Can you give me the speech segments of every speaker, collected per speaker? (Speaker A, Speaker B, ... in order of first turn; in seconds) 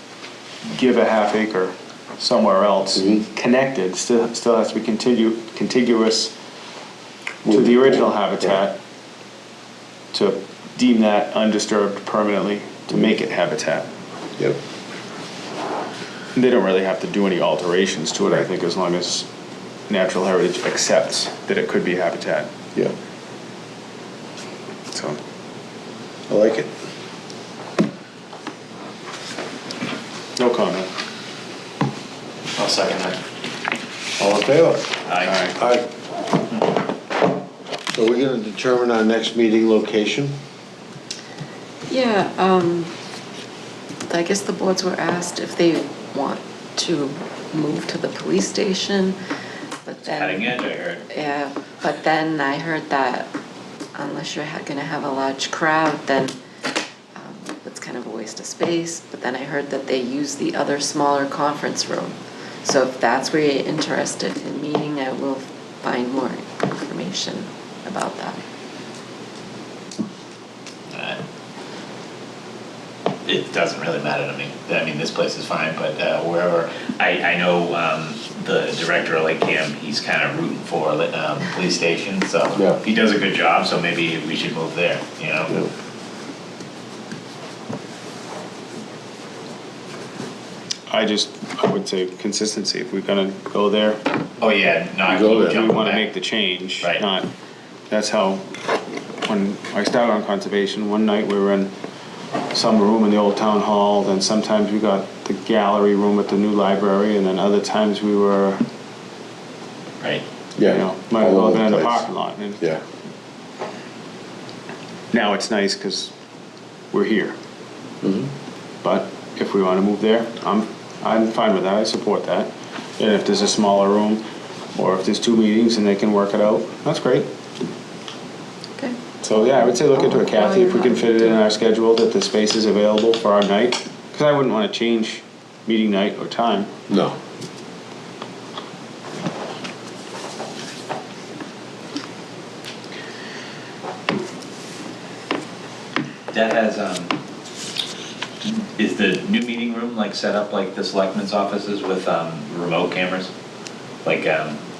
Speaker A: 0.7-6.3, 7.5-8.8, 10.1-13.9, 16.3-19.3, 19.9-22.5, 24.9-25.2, 30.4-30.9, 35.2-35.6, 90.9-94.0, 95.4-97.3, 97.9-98.5, 99.2-101.7, 102.5-108.7, 110.6-112.7, 115.1-116.1, 116.9-117.4, 118.8-124.2, 124.8-127.3, 129.2-136.7
Speaker B: 3.0-3.2, 7.4-8.6, 26.3-26.7, 34.2-35.0, 35.5-35.9, 37.9-40.4, 82.5-82.8, 95.1-95.6, 110.6-112.1, 118.0-118.3, 129.4-130.0, 136.9-137.2
Speaker C: 32.6-33.2, 35.1-35.4, 50.0-51.1, 70.9-71.2, 73.2-85.6, 94.4-96.1, 146.3-147.1, 148.4-153.3, 154.1-154.6
Speaker D: 41.9-42.9, 44.1-49.2, 49.8-50.5, 51.1-53.3, 54.0-56.4, 57.2-68.4, 130.2-131.1